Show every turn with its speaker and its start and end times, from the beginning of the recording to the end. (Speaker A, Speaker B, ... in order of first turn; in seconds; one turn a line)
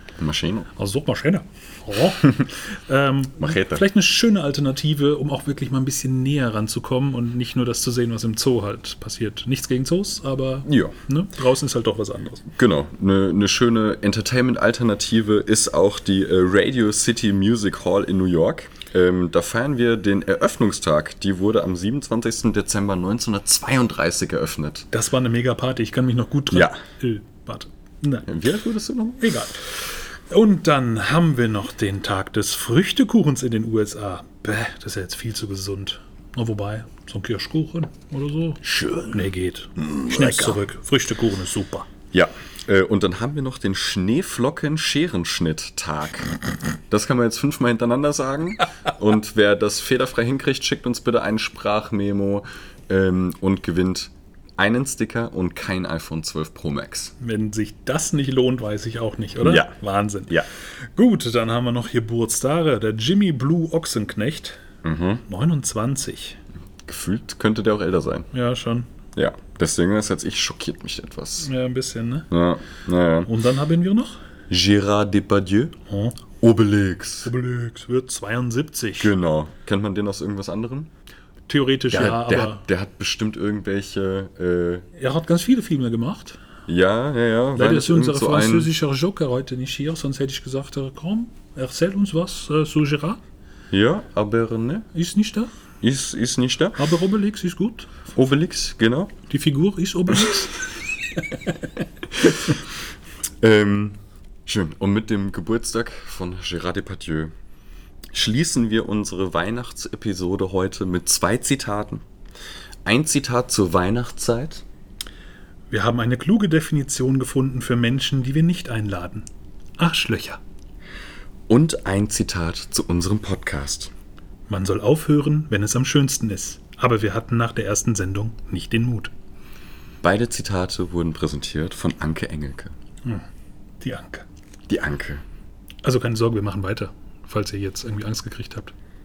Speaker A: 0.2-0.7
Speaker B: 0.7-12.4
Speaker A: 3.4-3.8
Speaker A: 10.6-10.9
Speaker A: 12.5-24.9
Speaker B: 24.9-28.3
Speaker A: 26.5-26.8
Speaker A: 28.3-29.3
Speaker B: 29.2-41.9
Speaker A: 38.6-39.2
Speaker A: 39.8-40.6
Speaker A: 42.1-46.4
Speaker A: 46.9-57.1
Speaker B: 57.2-60.4
Speaker A: 59.4-59.7
Speaker B: 60.9-64.6
Speaker A: 64.8-65.2
Speaker B: 65.3-66.4
Speaker A: 66.9-68.3
Speaker B: 68.3-68.9
Speaker A: 69.1-71.5
Speaker B: 71.4-72.3
Speaker A: 72.3-73.3
Speaker B: 73.2-74.2
Speaker A: 74.5-75.7
Speaker B: 75.9-76.2
Speaker A: 76.4-77.3
Speaker B: 77.2-79.1
Speaker A: 79.0-80.9
Speaker B: 81.5-82.6
Speaker A: 81.9-84.9
Speaker B: 84.9-86.4
Speaker A: 86.7-88.7
Speaker B: 87.5-93.2
Speaker A: 93.7-94.9
Speaker B: 94.9-95.5
Speaker A: 95.8-96.9
Speaker B: 96.8-98.0
Speaker A: 98.1-99.2
Speaker B: 99.3-100.6
Speaker B: 101.1-101.6
Speaker A: 102.1-102.6
Speaker A: 103.4-107.3
Speaker A: 108.1-112.0
Speaker A: 112.8-114.6
Speaker B: 115.7-119.3
Speaker B: 119.8-120.4
Speaker A: 121.5-123.9
Speaker B: 124.5-129.1
Speaker A: 130.0-132.7
Speaker B: 133.8-134.2
Speaker A: 134.7-135.2
Speaker B: 135.8-138.7